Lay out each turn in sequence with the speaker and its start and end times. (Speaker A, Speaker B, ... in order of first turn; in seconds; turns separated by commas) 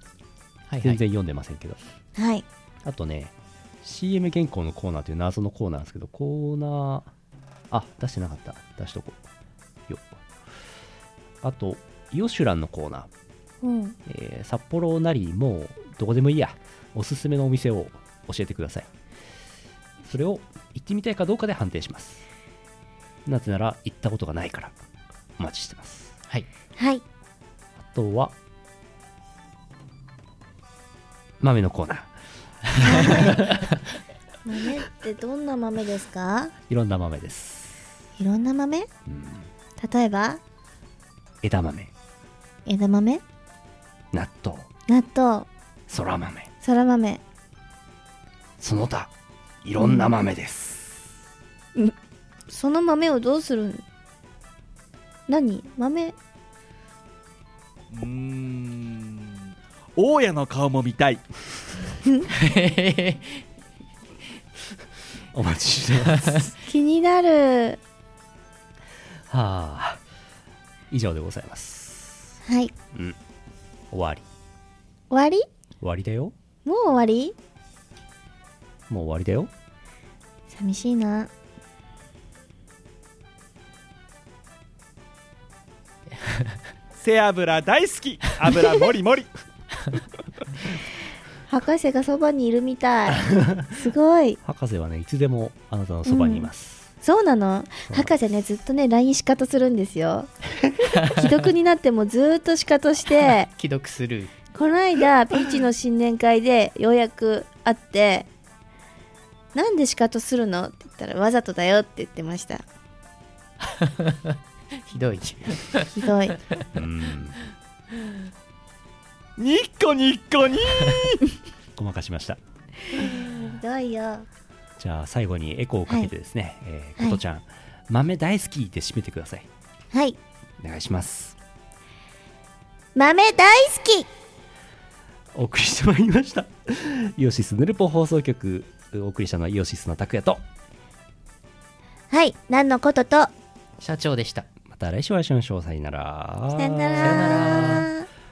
Speaker A: 0.7-1.0, Speaker B: 0.8-1.8, Speaker C: 2.1-2.4, Speaker B: 2.8-7.1, Speaker B: 7.7-9.2, Speaker B: 9.9-10.2, Speaker B: 11.4-13.1, Speaker C: 13.6-13.9, Speaker B: 14.1-18.9, Speaker B: 20.0-22.2, Speaker B: 23.2-24.7, Speaker B: 25.4-26.1, Speaker C: 26.8-27.0, Speaker B: 27.8-28.3, Speaker B: 31.4-32.1, Speaker C: 32.8-33.4, Speaker B: 32.9-33.2, Speaker C: 34.4-36.5, Speaker B: 36.7-37.8, Speaker C: 38.2-38.9, Speaker B: 39.1-39.5, Speaker C: 39.8-40.4, Speaker B: 41.4-41.9, Speaker C: 42.6-43.2, Speaker B: 44.1-44.7, Speaker C: 44.9-45.5, Speaker B: 45.9-46.5, Speaker C: 46.6-47.2, Speaker B: 48.6-49.1, Speaker B: 49.6-51.1, Speaker C: 49.8-50.1, Speaker C: 52.5-53.8, Speaker C: 55.3-56.1, Speaker D: 57.9-61.3, Speaker A: 62.3-63.4, Speaker B: 65.3-66.5, Speaker C: 66.7-67.8, Speaker B: 69.3-70.0, Speaker B: 70.9-72.3, Speaker C: 72.4-72.7, Speaker B: 73.9-74.2, Speaker C: 75.1-75.5, Speaker B: 75.8-76.3, Speaker C: 76.6-77.3, Speaker B: 78.9-79.5, Speaker C: 80.5-81.3, Speaker D: 87.0-89.3, Speaker C: 91.5-94.4, Speaker B: 94.4-96.9, Speaker C: 96.0-96.5, Speaker C: 97.0-103.5, Speaker B: 97.9-98.2, Speaker A: 103.5-104.3, Speaker C: 104.5-108.3, Speaker C: 109.5-112.6, Speaker A: 113.8-114.3, Speaker A: 114.9-115.9, Speaker C: 115.9-116.4, Speaker B: 116.7-117.4, Speaker D: 119.4-121.2, Speaker B: 121.8-122.4, Speaker C: 122.9-124.2, Speaker B: 124.8-129.5, Speaker C: 129.9-130.2, Speaker B: 130.6-131.4, Speaker C: 132.9-134.1, Speaker B: 135.3-140.4, Speaker C: 142.1-143.3, Speaker A: 143.8-144.5, Speaker B: 144.7-147.8, Speaker C: 146.6-148.1, Speaker A: 147.0-147.9